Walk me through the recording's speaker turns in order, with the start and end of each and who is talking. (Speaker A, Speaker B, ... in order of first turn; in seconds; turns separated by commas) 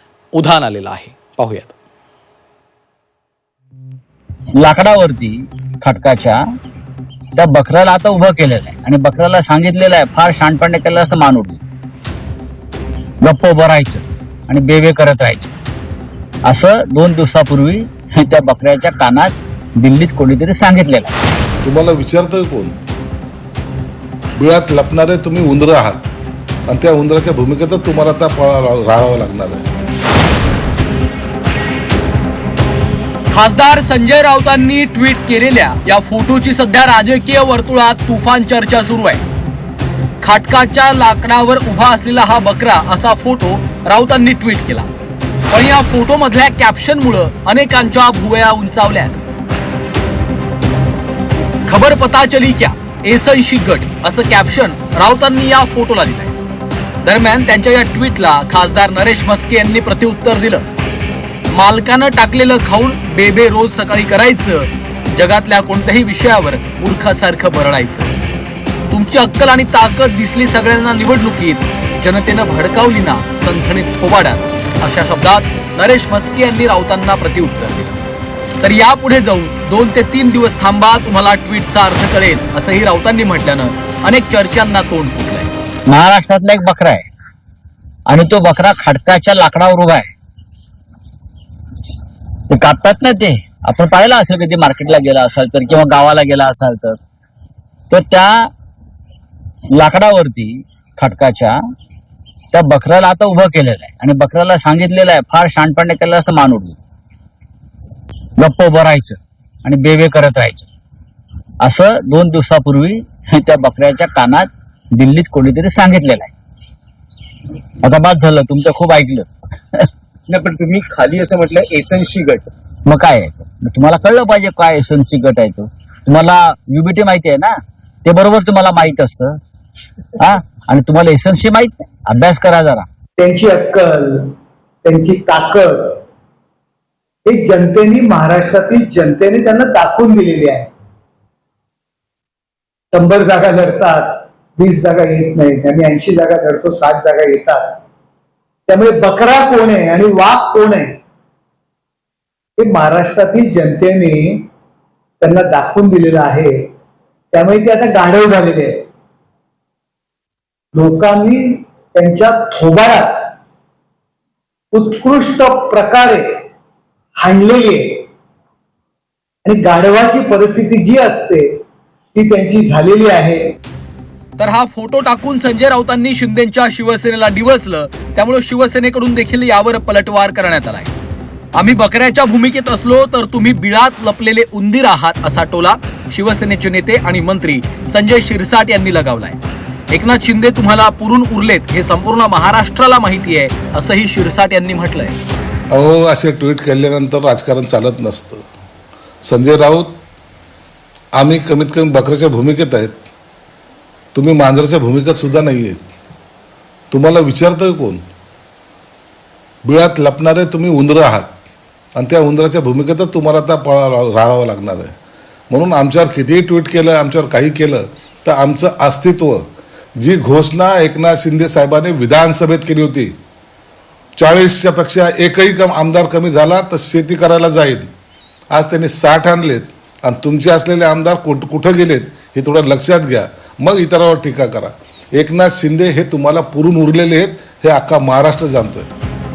Speaker A: 0.3-1.7, Speaker B: 4.6-6.4, Speaker B: 7.3-11.6, Speaker B: 13.2-15.5, Speaker B: 16.4-21.1, Speaker C: 21.6-22.8, Speaker C: 24.4-26.0, Speaker C: 26.7-29.6, Speaker A: 33.3-39.2, Speaker A: 40.2-44.9, Speaker A: 45.5-49.2, Speaker A: 51.6-56.3, Speaker A: 57.0-60.6, Speaker A: 61.5-68.1, Speaker A: 68.9-78.0, Speaker A: 78.6-85.5, Speaker B: 85.8-87.1, Speaker B: 88.1-90.1, Speaker B: 92.5-97.0, Speaker B: 97.9-98.5, Speaker B: 99.7-101.5, Speaker B: 102.5-106.8, Speaker B: 108.4-110.7, Speaker B: 111.6-116.3, Speaker B: 117.8-119.9, Speaker D: 120.3-122.5, Speaker B: 122.8-129.4, Speaker B: 130.2-132.8, Speaker E: 133.2-134.3, Speaker E: 134.8-136.0, Speaker E: 137.2-140.7, Speaker E: 142.9-147.8, Speaker E: 148.7-150.9, Speaker E: 152.6-154.5, Speaker E: 155.2-156.6, Speaker E: 157.3-158.9, Speaker E: 160.7-163.3, Speaker E: 164.7-166.4, Speaker E: 167.2-168.1, Speaker E: 169.4-171.6, Speaker E: 172.1-173.5, Speaker A: 174.4-180.9, Speaker A: 181.6-189.4, Speaker A: 189.9-195.2, Speaker C: 195.7-198.4, Speaker C: 199.2-200.0, Speaker C: 201.2-203.0, Speaker C: 204.1-205.8, Speaker C: 206.9-208.0, Speaker C: 209.6-211.3, Speaker C: 211.9-214.9, Speaker C: 215.5-219.5, Speaker C: 220.0-223.1, Speaker C: 224.2-227.9, Speaker C: 228.5-238.9